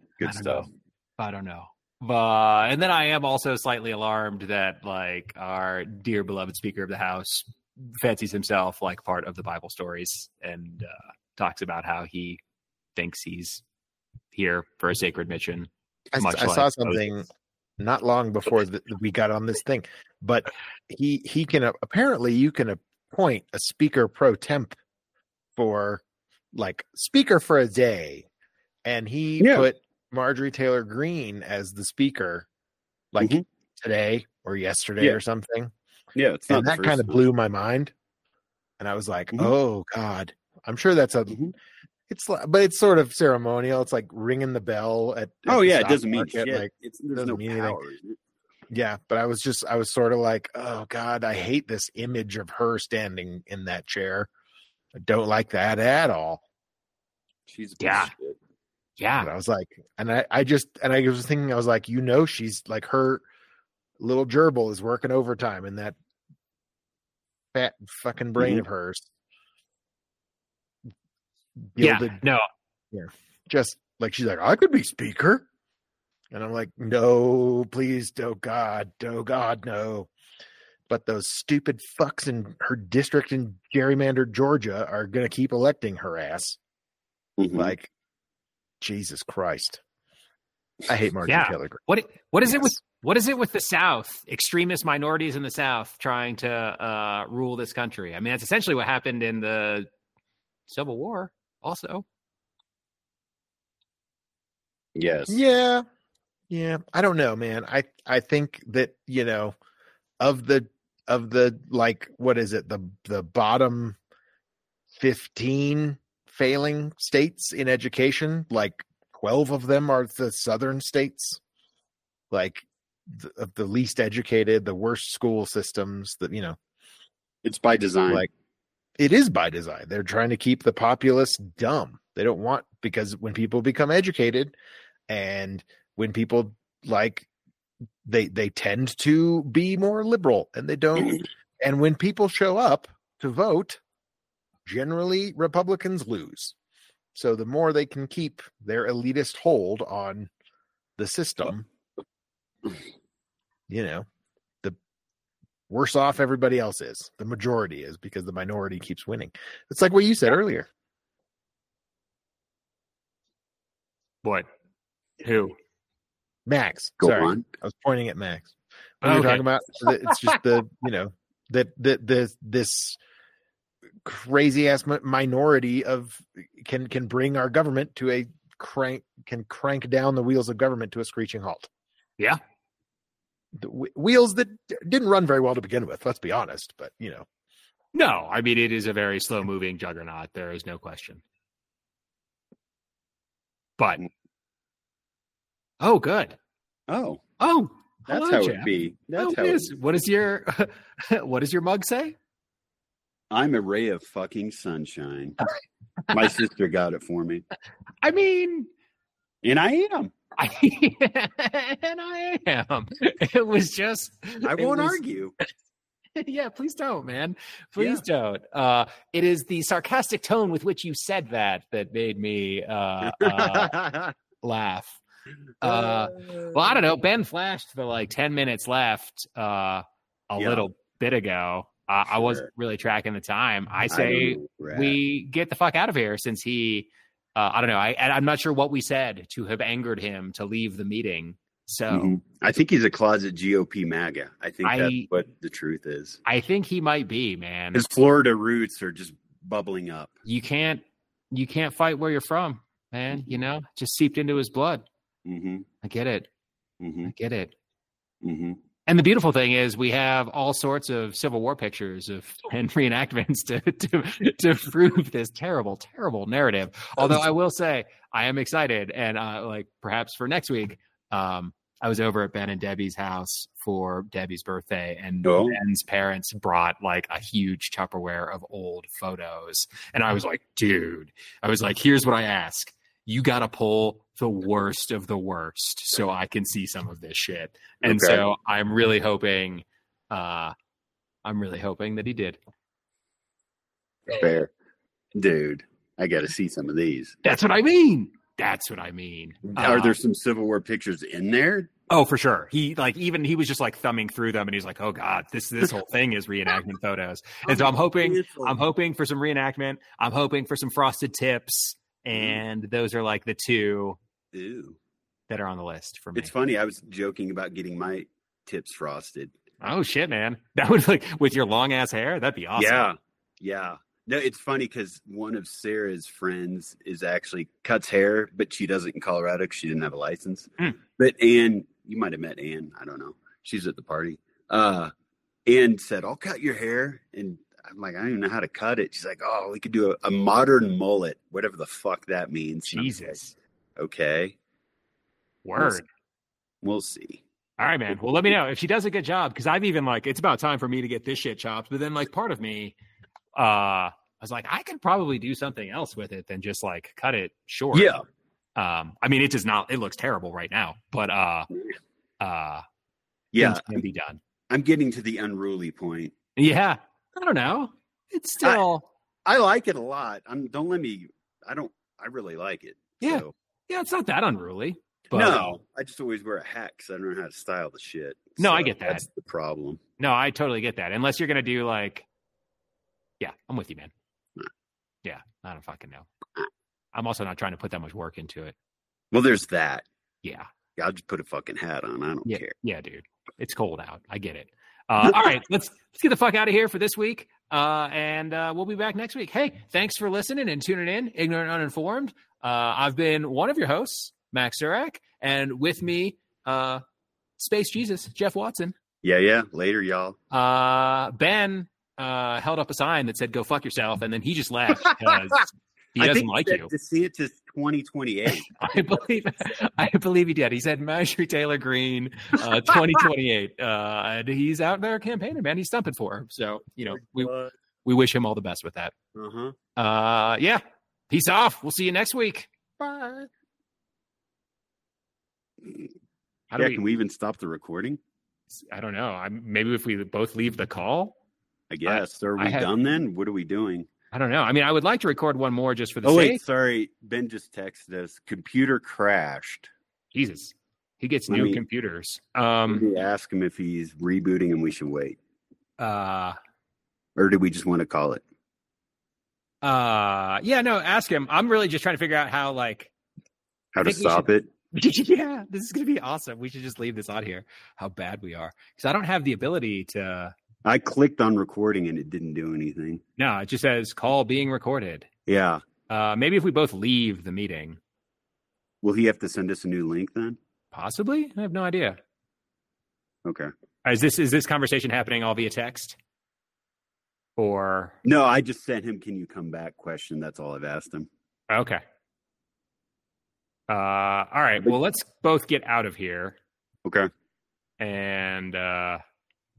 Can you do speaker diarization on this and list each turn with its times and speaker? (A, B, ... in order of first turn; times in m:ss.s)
0:00.2-0:00.7 A
0:00.2-0:12.4 B
0:13.0-0:13.6 B
0:14.3-0:17.0 B
0:16.1-0:24.8 C
0:25.6-0:28.2 C
0:28.8-0:32.5 C
0:29.4-0:29.7 A
0:33.1-0:35.7 C
0:36.1-0:37.2 A
0:36.5-0:37.9 C
0:38.8-0:41.4 C
0:42.1-0:47.8 C
0:45.4-0:48.2 A
0:48.7-0:54.3 C
0:54.9-0:56.4 C
0:57.5-0:58.4 A
0:57.8-0:58.1 B
0:59.0-0:59.3 B
0:59.2-1:03.2 C
1:04.0-1:05.9 C
1:07.5-1:09.1 C
1:08.4-1:08.6 A
1:11.7-1:12.2 C
1:11.8-1:12.5 B
1:12.9-1:15.4 C
1:16.3-1:20.1 C
1:20.9-1:26.6 C
1:27.4-1:27.7 A
1:27.5-1:27.9 C
1:28.8-1:29.8 C
1:30.9-1:31.8 C
1:31.2-1:39.9 B
1:32.4-1:32.7 C
1:40.7-1:42.0 B
1:44.9-1:45.4 A
1:45.3-1:45.8 C
1:46.5-1:49.5 C
1:50.2-1:54.0 C
1:54.9-2:01.4 C
2:02.3-2:06.6 C
2:07.4-2:08.3 A
2:09.0-2:14.5 C
2:15.1-2:17.3 C
2:18.0-2:23.8 C
2:24.6-2:26.6 C
2:27.1-2:30.3 C
2:31.0-2:31.6 C
2:33.7-2:34.0 C
2:35.7-2:40.7 C
2:45.2-2:45.6 B
2:46.4-2:53.0 C
2:47.0-2:47.4 A
2:49.0-2:49.5 B
2:50.0-2:50.3 B
2:54.0-3:01.7 C
3:03.5-3:07.2 C
3:07.9-3:11.2 B
3:13.8-3:14.1 B
3:15.8-3:16.4 B
3:16.9-3:17.2 A
3:17.4-3:22.2 B
3:18.1-3:19.7 A
3:23.3-3:25.4 A
3:26.1-3:27.4 A
3:28.0-3:28.7 B
3:29.4-3:30.1 A
3:30.4-3:35.0 B
3:34.4-3:35.3 A
3:36.2-3:43.8 B
3:37.8-3:38.0 A
3:43.2-3:44.1 A
3:44.4-3:45.0 B
3:45.6-4:02.1 B
3:45.6-3:46.8 A
3:50.4-3:50.6 A
3:52.1-3:52.5 A
3:53.9-3:55.0 A
4:01.9-4:06.2 A
4:04.6-4:05.1 B
4:06.2-4:07.8 B
4:07.7-4:10.2 A
4:10.2-4:14.8 B
4:15.2-4:15.7 A
4:15.8-4:16.3 B
4:16.8-4:17.1 A
4:17.0-4:17.5 B
4:18.2-4:18.6 A
4:18.8-4:50.5 B
4:35.2-4:35.6 A
4:47.8-4:48.2 A
4:51.2-4:52.4 B
4:54.1-4:54.5 A
4:55.1-4:57.2 A
4:57.2-5:00.0 B
4:59.5-5:01.7 A
5:01.9-5:14.0 B
5:07.4-5:08.6 A
5:12.1-5:12.4 A
5:14.3-5:14.8 A
5:15.3-5:16.3 B
5:16.2-5:19.3 A
5:19.6-5:22.8 B
5:22.6-5:34.9 A
5:35.5-5:43.2 A
5:42.7-5:43.3 B
5:43.8-5:44.4 A
5:45.4-5:45.8 B
5:46.6-5:47.2 A
5:47.6-5:52.8 B
5:53.4-5:58.0 B
5:57.7-5:58.0 A
5:58.6-6:01.5 B
6:02.2-6:02.6 B
6:03.3-6:03.8 A
6:03.4-6:04.2 B
6:04.5-6:06.1 A
6:06.4-6:08.9 B
6:09.2-6:13.3 A
6:13.0-6:15.6 B
6:15.1-6:19.8 A
6:18.4-6:19.0 B
6:20.0-6:22.1 B
6:23.2-6:23.9 B
6:25.0-6:26.1 B
6:26.9-6:28.5 B
6:29.1-6:29.8 A
6:30.2-6:30.5 B
6:30.8-6:32.5 A
6:32.2-6:46.8 B
6:47.4-6:48.7 B
6:49.0-6:50.2 A
6:50.3-6:56.7 B
6:56.0-6:58.7 A
6:58.5-7:07.3 B
7:07.2-7:07.5 A
7:07.8-7:08.9 B
7:09.1-7:09.6 A
7:09.8-7:13.3 B
7:16.5-7:16.8 B
7:16.6-7:18.0 A
7:18.5-7:21.1 B
7:21.7-7:23.9 A
7:21.8-7:22.7 B
7:24.1-7:26.4 B
7:26.0-7:29.7 A
7:30.1-7:32.8 B
7:31.3-7:31.6 A
7:32.7-7:35.2 A
7:35.8-7:36.4 B
7:37.2-7:38.2 A
7:39.6-7:42.9 B
7:43.7-7:44.4 A
7:43.8-7:50.3 B
7:50.6-7:53.0 A
7:53.2-7:55.1 B
7:55.3-7:55.6 A
7:55.9-7:57.8 B
7:58.8-8:00.4 A
8:00.7-8:02.0 B
8:03.2-8:03.5 A
8:03.8-8:06.0 B
8:07.4-8:07.9 B
8:08.0-8:11.1 A
8:11.5-8:11.8 B
8:13.7-8:16.4 B
8:16.8-8:17.1 A
8:17.8-8:19.0 B